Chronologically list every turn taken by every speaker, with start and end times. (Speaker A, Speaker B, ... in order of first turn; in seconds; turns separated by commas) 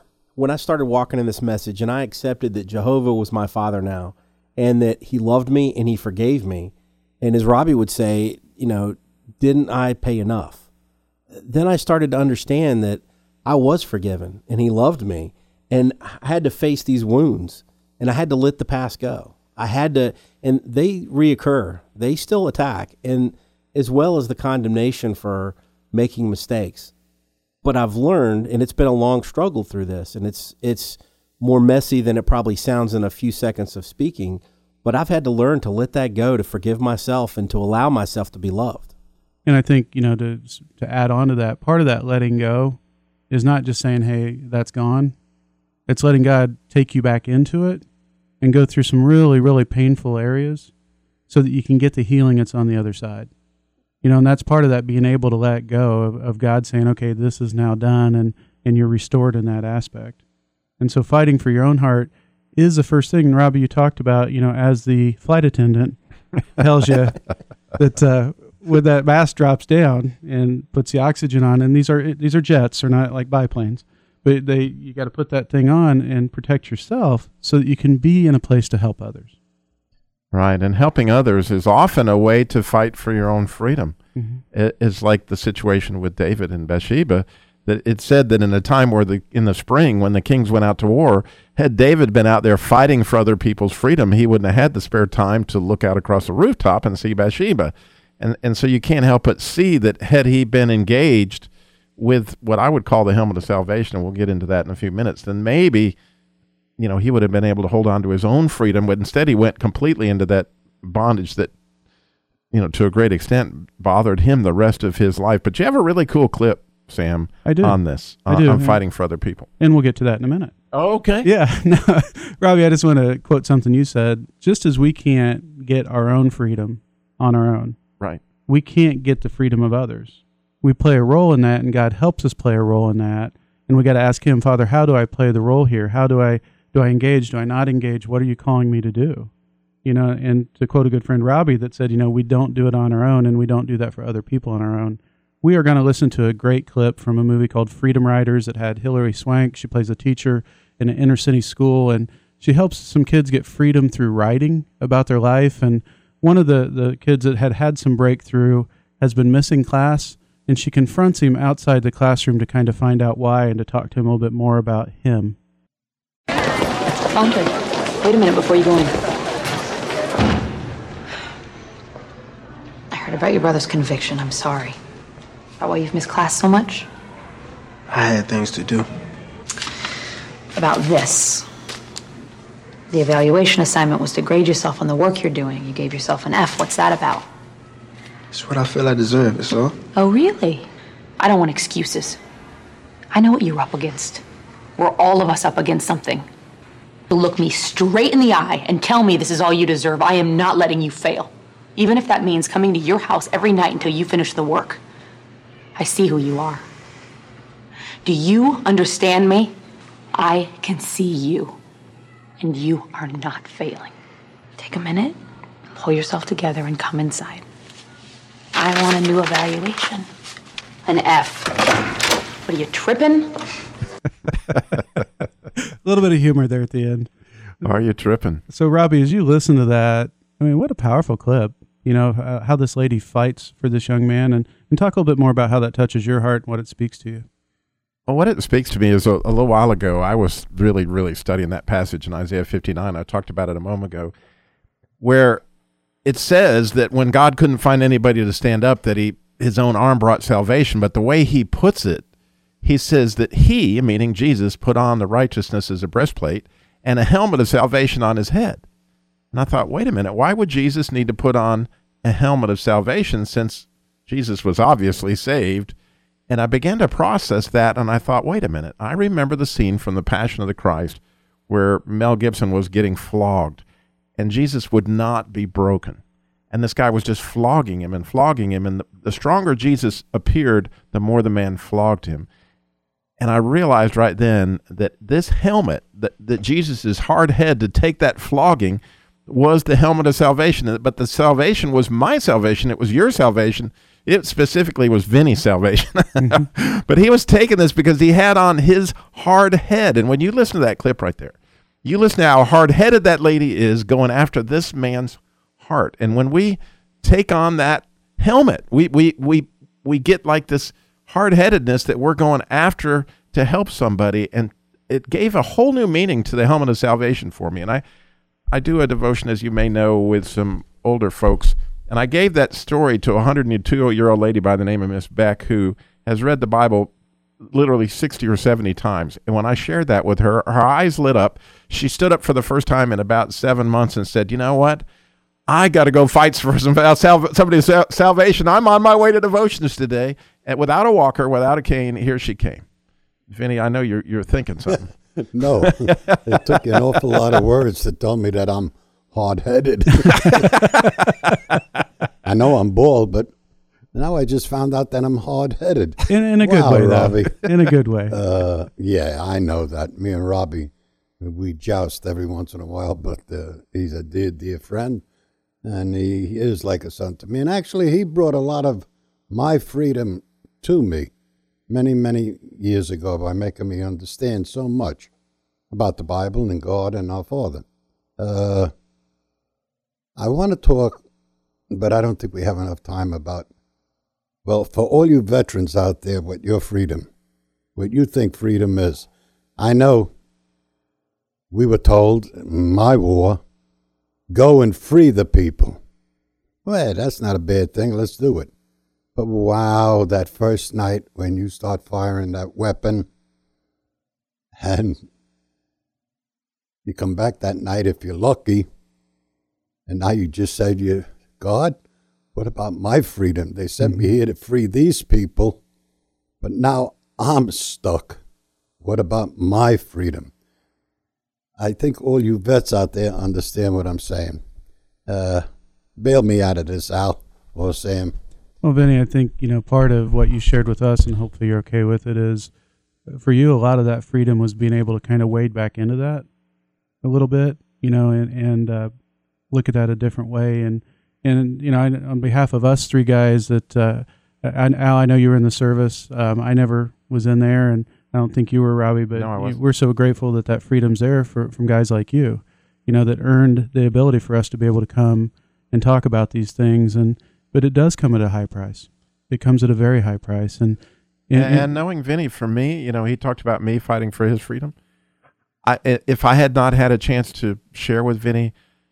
Speaker A: 0.4-10.7, Speaker A: 11.3-26.9, Speaker A: 27.6-38.9, Speaker B: 39.5-42.8, Speaker B: 43.3-45.1, Speaker B: 45.9-47.9, Speaker B: 48.4-50.7, Speaker B: 51.3-53.3, Speaker B: 54.0-60.2, Speaker B: 60.8-66.0, Speaker B: 66.5-67.2, Speaker B: 67.8-79.3, Speaker C: 80.3-84.0, Speaker B: 84.2-84.4, Speaker C: 84.5-106.0, Speaker C: 106.8-111.5, Speaker C: 112.5-119.5, Speaker B: 117.4-118.8, Speaker B: 119.6-120.5, Speaker C: 120.7-121.3, Speaker B: 121.2-127.8, Speaker B: 128.5-139.3, Speaker B: 139.8-165.4, Speaker D: 167.1-168.9, Speaker D: 172.9-174.8, Speaker D: 175.6-176.9, Speaker E: 177.9-178.9, Speaker D: 180.5-181.5, Speaker D: 182.9-187.3, Speaker E: 188.3-189.8, Speaker D: 190.0-190.7, Speaker D: 191.2-192.2, Speaker D: 193.1-194.2, Speaker D: 194.8-196.3, Speaker D: 197.1-204.8, Speaker D: 205.8-206.7, Speaker D: 208.0-209.5, Speaker D: 210.2-211.6, Speaker D: 212.4-213.9, Speaker D: 214.6-215.2, Speaker D: 215.8-217.4, Speaker D: 218.6-220.1, Speaker D: 220.9-221.9, Speaker D: 222.4-223.4, Speaker B: 225.8-227.1, Speaker C: 227.6-228.4, Speaker B: 228.5-237.2, Speaker C: 238.1-244.1, Speaker C: 245.0-245.4, Speaker C: 246.1-252.1, Speaker C: 252.6-258.6, Speaker C: 259.3-265.7, Speaker C: 266.3-273.6, Speaker C: 274.2-282.3, Speaker C: 283.2-317.8, Speaker B: 296.2-296.5, Speaker C: 318.5-326.9, Speaker C: 327.5-334.9, Speaker C: 335.5-342.6, Speaker C: 343.3-344.9, Speaker F: 345.2-350.6, Speaker C: 345.6-346.2, Speaker F: 352.2-353.3, Speaker F: 353.9-357.5, Speaker B: 356.1-358.1, Speaker F: 358.1-365.0, Speaker F: 365.6-371.1, Speaker F: 371.7-375.1, Speaker F: 375.7-377.6, Speaker F: 378.2-378.7, Speaker F: 380.2-381.0, Speaker F: 381.7-383.5, Speaker F: 384.4-387.1, Speaker F: 387.8-390.1, Speaker F: 391.5-393.4, Speaker F: 394.3-395.8, Speaker F: 396.6-398.5, Speaker F: 399.1-403.1, Speaker F: 404.6-405.0, Speaker F: 406.9-408.7, Speaker F: 409.9-411.8, Speaker F: 412.4-415.6, Speaker F: 416.4-418.2, Speaker F: 418.8-420.3, Speaker F: 421.6-424.4, Speaker F: 425.1-425.4, Speaker F: 426.0-428.1, Speaker B: 428.6-432.5, Speaker B: 433.1-436.2, Speaker B: 437.0-438.9, Speaker B: 439.5-461.7, Speaker C: 449.1-449.6, Speaker C: 461.3-464.7, Speaker C: 465.6-468.5